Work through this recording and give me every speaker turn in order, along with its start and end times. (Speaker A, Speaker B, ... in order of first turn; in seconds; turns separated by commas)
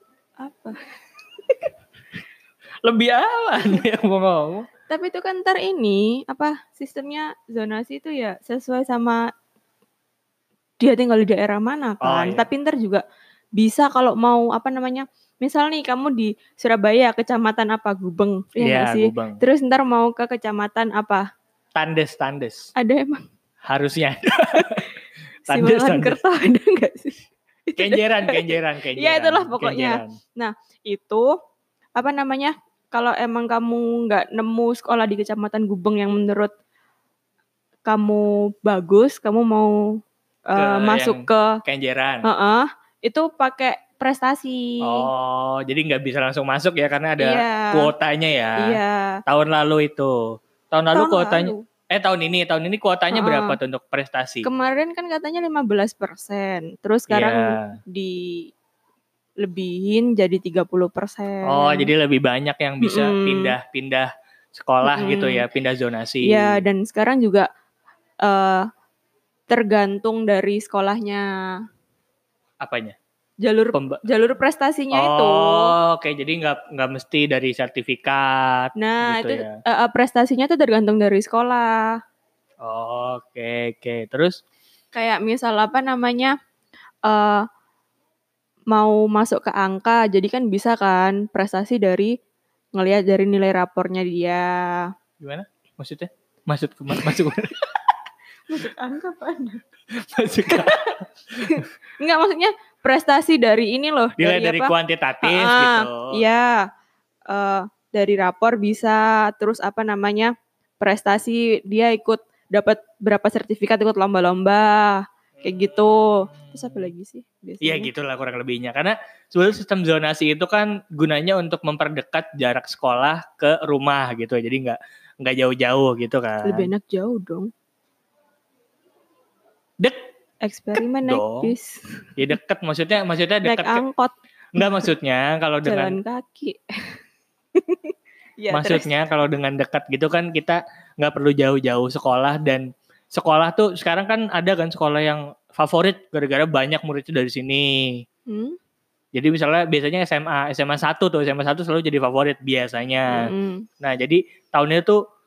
Speaker A: 0.4-0.8, Speaker B: 2.8-4.7, Speaker A: 4.9-9.2, Speaker A: 10.8-13.0, Speaker B: 12.0-12.4, Speaker A: 13.6-21.2, Speaker B: 18.6-19.4, Speaker B: 21.7-22.7, Speaker A: 22.8-23.2, Speaker B: 23.7-24.9, Speaker A: 24.5-24.9, Speaker A: 25.5-31.3, Speaker B: 25.5-26.2, Speaker B: 27.8-30.2, Speaker A: 32.0-36.5, Speaker A: 37.9-39.8, Speaker A: 40.5-41.6, Speaker B: 40.6-42.2, Speaker A: 42.2-45.1, Speaker B: 44.8-54.5, Speaker A: 47.2-47.9, Speaker A: 48.6-49.2, Speaker A: 50.9-51.6, Speaker A: 53.1-53.6, Speaker A: 54.4-58.5, Speaker B: 57.1-57.8, Speaker A: 59.4-61.9, Speaker B: 61.5-66.6, Speaker A: 62.8-63.5, Speaker A: 64.8-65.4, Speaker A: 66.2-67.5, Speaker A: 68.2-68.7, Speaker A: 69.5-71.2, Speaker B: 72.6-73.0, Speaker A: 73.4-75.8, Speaker B: 73.7-74.0, Speaker B: 74.9-79.6, Speaker A: 78.8-82.0, Speaker B: 82.6-84.4, Speaker A: 84.9-86.3, Speaker A: 87.0-87.4, Speaker A: 88.7-92.1, Speaker A: 92.7-94.9, Speaker B: 95.2-97.5, Speaker A: 98.5-99.6, Speaker B: 99.9-101.6, Speaker A: 100.5-106.6, Speaker B: 104.2-106.2, Speaker A: 107.3-117.9, Speaker B: 115.3-116.9, Speaker B: 117.6-126.7, Speaker A: 126.4-127.5, Speaker A: 130.4-132.1, Speaker B: 131.0-131.5, Speaker B: 132.2-133.8, Speaker A: 133.4-134.9, Speaker B: 134.5-136.0, Speaker A: 135.6-137.0, Speaker A: 137.6-139.0, Speaker B: 138.5-148.0, Speaker A: 148.3-148.6, Speaker B: 149.1-155.0, Speaker A: 153.1-153.7